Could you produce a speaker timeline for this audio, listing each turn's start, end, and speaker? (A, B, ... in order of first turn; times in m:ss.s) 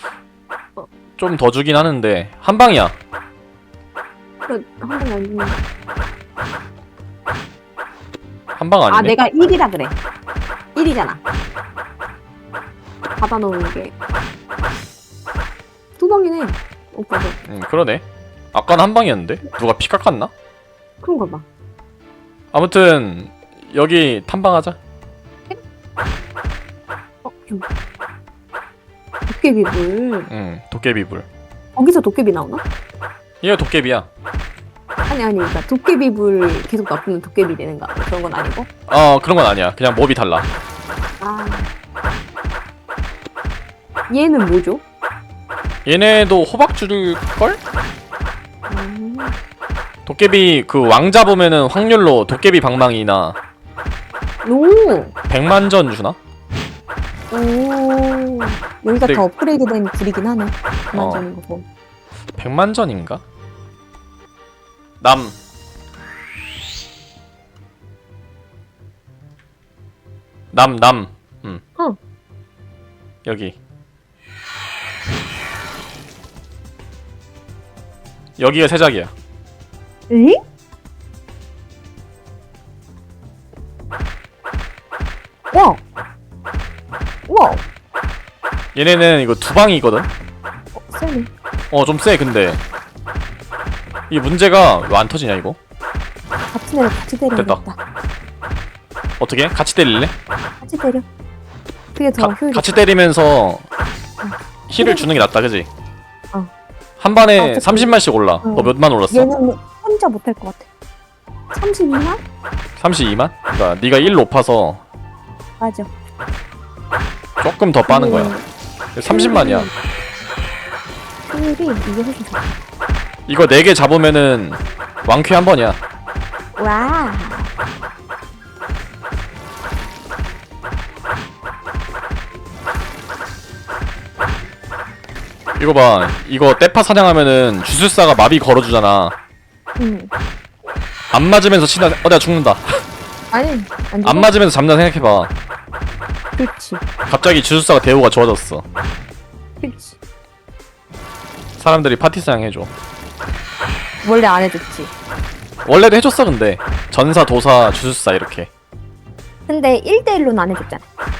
0:01.2-0:02.9 A
0:04.4-0:05.6 B
0:08.6-0:09.2 A
0:08.9-0:10.0 B
0:10.7-0:11.2 B
0:13.2-0:13.9 B
0:16.0-0:17.4 B
0:17.5-0:20.3 A
0:21.0-0:21.4 B
0:22.5-0:24.8 A
0:27.2-0:27.6 B
0:29.3-0:30.3 B
0:30.3-0:31.2 A
0:31.8-0:32.6 B
0:33.4-0:34.1 A
0:35.1-0:38.7 B
0:38.9-0:40.5 A
0:41.2-0:41.7 B
0:44.1-0:44.8 B
0:45.8-0:47.6 A
0:48.7-0:49.3 B
0:50.0-0:53.4 A
0:54.4-0:55.1 B
0:55.3-0:56.2 A
0:57.3-1:01.6 B
1:00.9-1:01.2 A
1:02.4-1:03.2 A
1:05.0-1:05.3 A
1:10.5-1:11.6 A
1:13.2-1:13.6 A
1:18.4-1:19.1 A
1:20.1-1:20.4 B
1:25.5-1:25.8 B
1:27.3-1:27.6 B
1:28.7-1:30.1 A
1:30.7-1:31.3 B
1:31.7-1:32.6 A
1:34.1-1:35.6 A
1:36.5-1:37.8 B
1:37.3-1:37.6 A
1:39.2-1:40.1 A
1:40.6-1:41.0 B
1:41.9-1:42.8 B
1:42.2-1:43.6 A
1:44.2-1:45.1 B
1:44.7-1:45.7 A
1:47.0-1:49.3 A
1:47.4-1:50.7 B
1:51.5-1:52.2 B
1:52.8-1:54.8 A
1:55.6-1:55.9 B
1:57.4-1:58.3 A
1:57.9-1:58.4 B
1:58.9-1:59.7 A
1:59.1-1:59.7 B
2:01.3-2:02.6 B
2:03.3-2:05.8 A
2:06.6-2:07.5 B
2:15.6-2:19.1 A
2:19.8-2:20.1 B
2:21.1-2:22.8 A
2:23.3-2:24.3 B
2:24.0-2:25.3 A
2:26.4-2:26.8 B
2:27.1-2:28.6 A
2:29.6-2:30.0 B
2:31.6-2:32.7 A
2:34.0-2:34.9 B
2:35.6-2:38.5 A
2:39.5-2:40.8 B